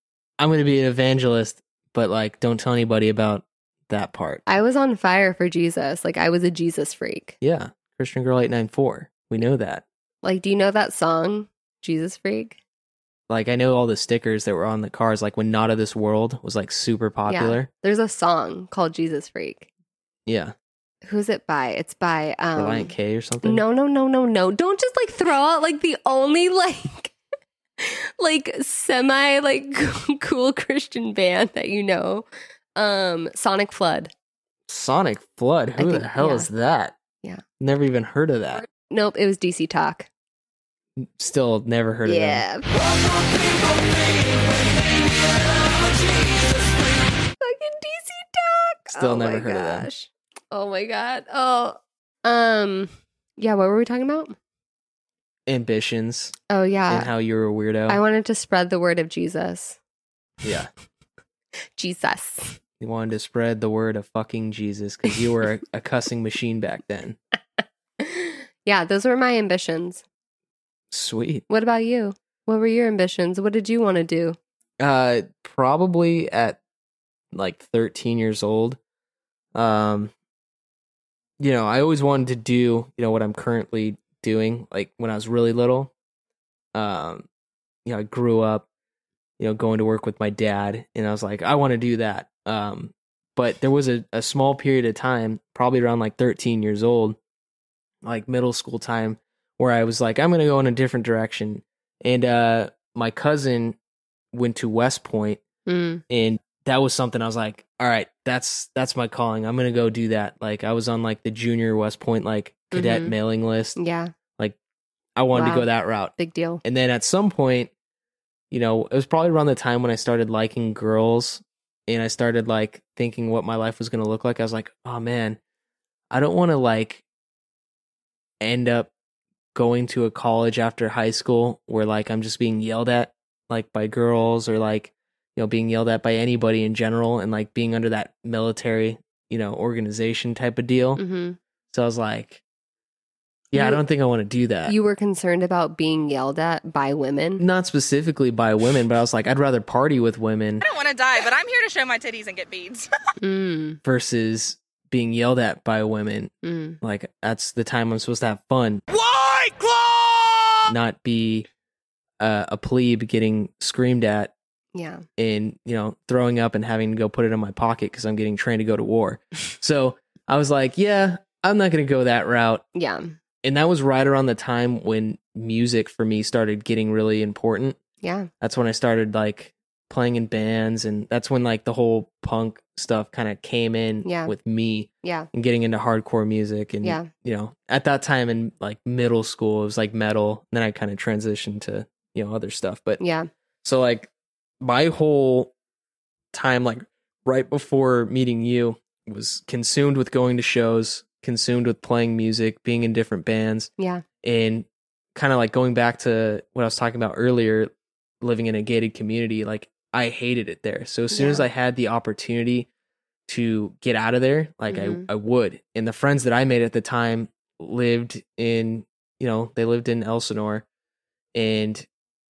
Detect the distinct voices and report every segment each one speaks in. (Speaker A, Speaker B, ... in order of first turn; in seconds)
Speaker A: 0.4-4.5, 7.4-9.8, 13.3-17.7, 20.3-20.5, 22.6-23.6, 34.7-37.0, 37.6-38.7, 41.0-42.5, 48.9-49.9, 55.5-56.4, 56.9-58.0, 60.4-60.7, 62.8-67.2, 70.9-71.4, 74.8-76.6, 77.3-78.8, 79.5-80.1, 81.4-85.9, 86.7-87.3, 87.9-88.7, 89.4-97.2, 98.0-103.8, 104.3-105.4, 106.1-113.8, 115.2-117.7, 118.5-125.4, 126.1-127.0, 128.4-128.9, 129.6-141.0, 141.7-142.4, 143.5-144.8, 147.4-150.7, 153.8-158.8, 160.7-161.5, 162.2-164.3, 165.2-172.6, 173.4-177.8, 178.4-193.0, 193.6-194.1, 194.6-195.5, 196.3-203.7, 204.2-207.7, 208.2-212.7, 213.3-220.7, 221.3-221.9
Speaker B: 4.5-7.3, 10.2-12.6, 17.3-19.7, 21.0-27.1, 27.8-34.1, 35.8-36.5, 38.9-40.1, 42.1-42.7, 47.4-54.4, 56.5-57.1, 57.9-59.8, 61.8-62.6, 68.0-70.0, 71.5-74.4, 105.7-106.0, 112.7-113.1, 113.8-114.1, 115.3-116.6, 141.0-141.4, 143.5-143.8, 144.7-147.4, 153.2-153.8, 156.4-156.8, 164.7-165.1, 172.8-173.2, 178.0-178.3, 184.0-184.3, 185.0-185.3, 186.8-187.1, 193.0-193.3, 203.8-204.0, 211.1-211.4, 214.7-215.1
Speaker C: 42.7-46.8, 158.9-160.6
Speaker D: 150.6-152.9